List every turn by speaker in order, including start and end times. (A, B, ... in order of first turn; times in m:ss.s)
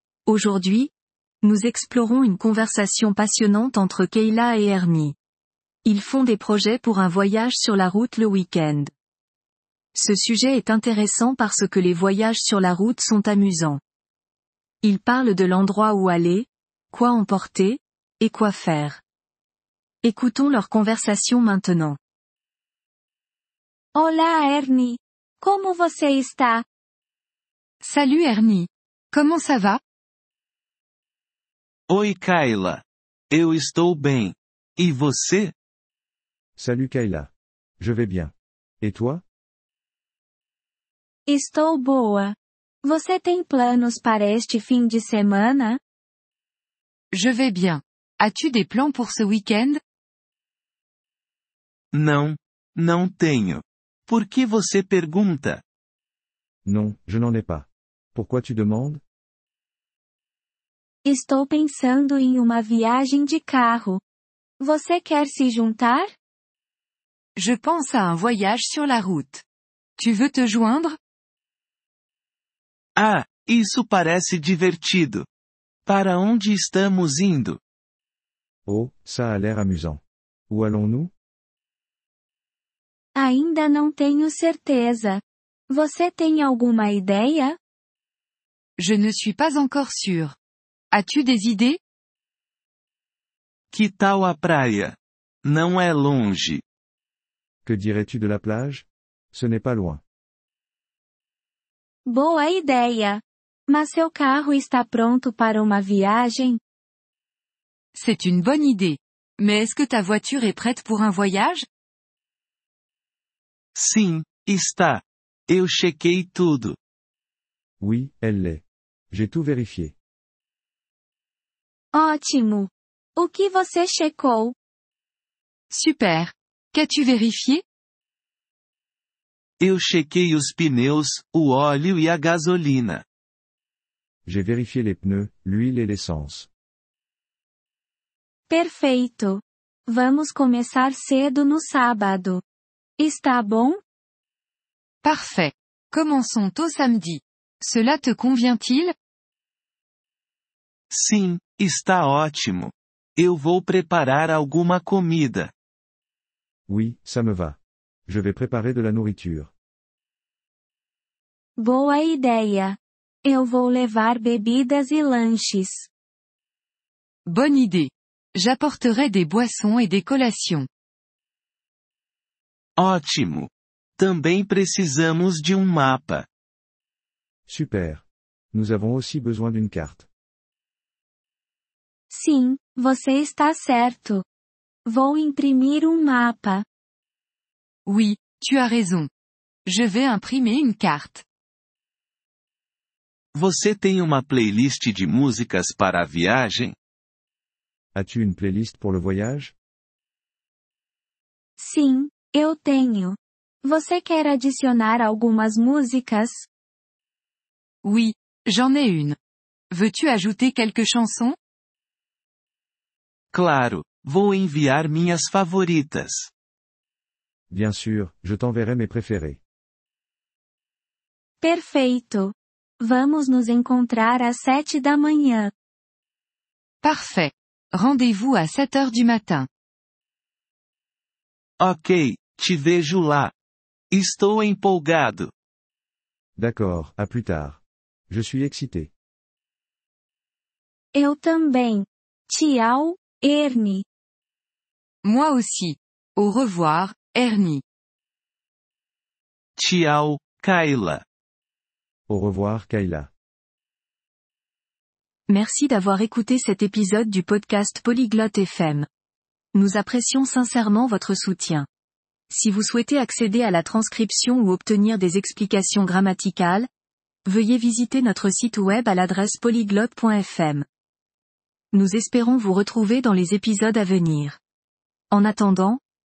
0:00.3-0:05.2 A
0:05.8-0:08.9 A
0:09.9-0:13.8 A
0:14.8-0:19.0 A
0:20.0-0:22.0 A
0:23.9-0:26.6 B
0:27.8-0:29.8 C
0:31.9-0:35.5 D
0:36.6-0:39.2 E
0:41.3-0:45.8 B
0:47.1-0:49.8 C
0:51.9-0:55.6 D
0:56.6-0:59.0 E
1:01.0-1:04.0 B
1:04.6-1:06.1 B
1:07.4-1:09.4 C
1:10.0-1:11.0 C
1:13.0-1:15.2 D
1:15.8-1:17.6 D
1:18.6-1:21.1 E
1:23.1-1:27.6 B
1:28.8-1:30.4 C
1:30.9-1:31.8 C
1:33.7-1:36.6 D
1:37.6-1:40.0 E
1:42.0-1:46.6 B
1:47.9-1:51.6 C
1:53.7-1:56.8 D
1:57.8-1:59.9 E
2:01.9-2:04.6 B
2:05.7-2:07.6 C
2:09.6-2:13.0 D
2:14.2-2:16.5 E
2:18.5-2:22.4 B
2:23.0-2:23.8 B
2:25.0-2:28.9 C
2:30.9-2:35.5 D
2:36.7-2:39.5 E
2:41.6-2:45.9 B
2:47.2-2:50.7 C
2:52.8-2:56.3 D
2:57.5-3:00.1 E
3:02.1-3:04.2 B
3:04.8-3:06.6 B
3:07.8-3:09.1 C
3:09.6-3:11.2 C
3:13.3-3:16.8 D
3:17.9-3:19.5 E
3:21.6-3:26.5 B
3:27.8-3:29.2 C
3:29.7-3:31.4 C
3:33.3-3:36.3 D
3:37.5-3:39.4 E
3:41.4-3:45.5 B
3:46.8-3:49.5 C
3:51.6-3:53.3 D
3:53.9-3:55.3 D
3:56.4-3:58.9 E
4:00.9-4:03.8 B
4:05.0-4:07.6 C
4:09.6-4:11.0 D
4:12.1-4:13.1 E
4:15.3-4:18.9 A
4:19.5-4:21.7 A
4:22.3-4:26.7 A
4:27.2-4:30.6 A
4:31.7-4:34.4 A
4:35.1-4:35.8 A